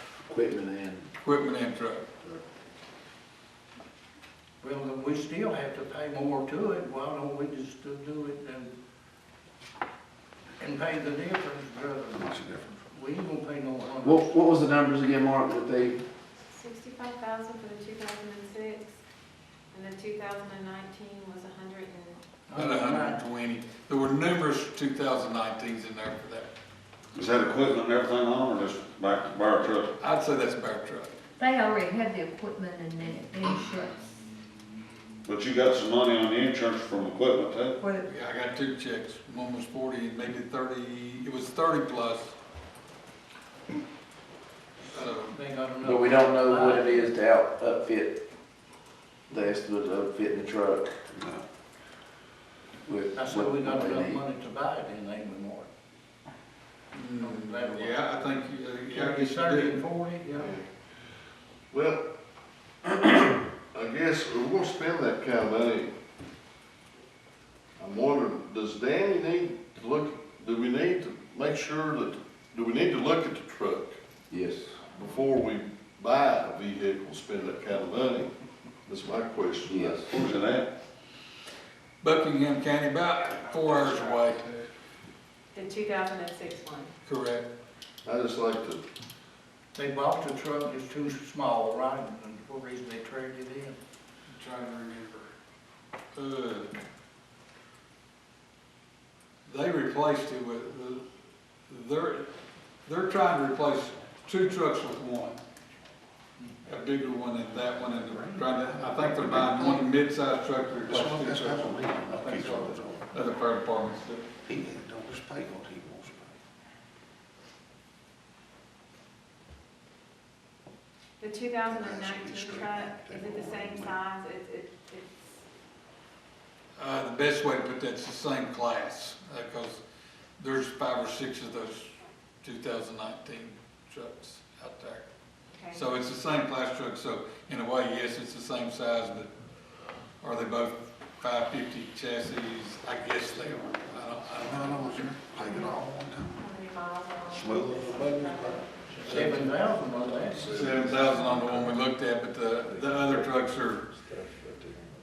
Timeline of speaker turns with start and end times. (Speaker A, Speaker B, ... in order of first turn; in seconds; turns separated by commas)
Speaker A: 0.3-1.1, Speaker B: 1.2-2.1, Speaker C: 4.6-8.7, Speaker C: 10.6-14.6, Speaker D: 12.2-12.7, Speaker A: 14.0-16.0, Speaker E: 16.5-19.0, Speaker E: 19.7-22.2, Speaker C: 22.5-23.2, Speaker B: 22.6-26.5, Speaker D: 27.1-29.9, Speaker B: 30.0-31.1, Speaker F: 31.4-34.1, Speaker D: 35.2-37.8, Speaker F: 37.8-38.1, Speaker B: 38.0-42.4, Speaker B: 44.9-45.4, Speaker C: 45.2-47.1, Speaker A: 45.8-48.2, Speaker A: 49.3-51.0, Speaker A: 52.9-54.2, Speaker C: 53.1-55.7, Speaker B: 56.9-59.8, Speaker C: 57.2-58.2, Speaker C: 58.9-60.5, Speaker G: 60.4-60.7, Speaker G: 61.7-62.1, Speaker G: 63.7-65.9, Speaker G: 67.8-74.0, Speaker A: 74.3-74.8, Speaker G: 74.9-78.3, Speaker G: 78.9-80.1, Speaker A: 79.7-80.0, Speaker D: 80.1-80.7, Speaker B: 82.0-84.6, Speaker E: 85.5-86.9, Speaker B: 87.0-87.5, Speaker G: 88.0-88.8, Speaker C: 89.8-93.8, Speaker B: 94.3-95.3, Speaker B: 96.2-96.7, Speaker B: 99.5-101.0, Speaker B: 101.7-102.3, Speaker B: 102.8-105.4, Speaker B: 106.6-112.5, Speaker C: 108.2-109.1, Speaker D: 109.1-109.8, Speaker D: 110.9-113.1, Speaker C: 112.3-112.8, Speaker B: 113.1-114.3, Speaker D: 114.5-116.3, Speaker E: 121.2-125.4, Speaker D: 121.7-124.0, Speaker B: 126.8-129.8, Speaker B: 130.4-135.0, Speaker E: 135.5-135.8, Speaker B: 135.7-139.3, Speaker B: 140.2-145.2, Speaker D: 144.3-146.4, Speaker E: 146.4-149.1, Speaker D: 147.3-148.6, Speaker G: 149.0-151.7, Speaker C: 149.1-150.5, Speaker B: 150.5-153.8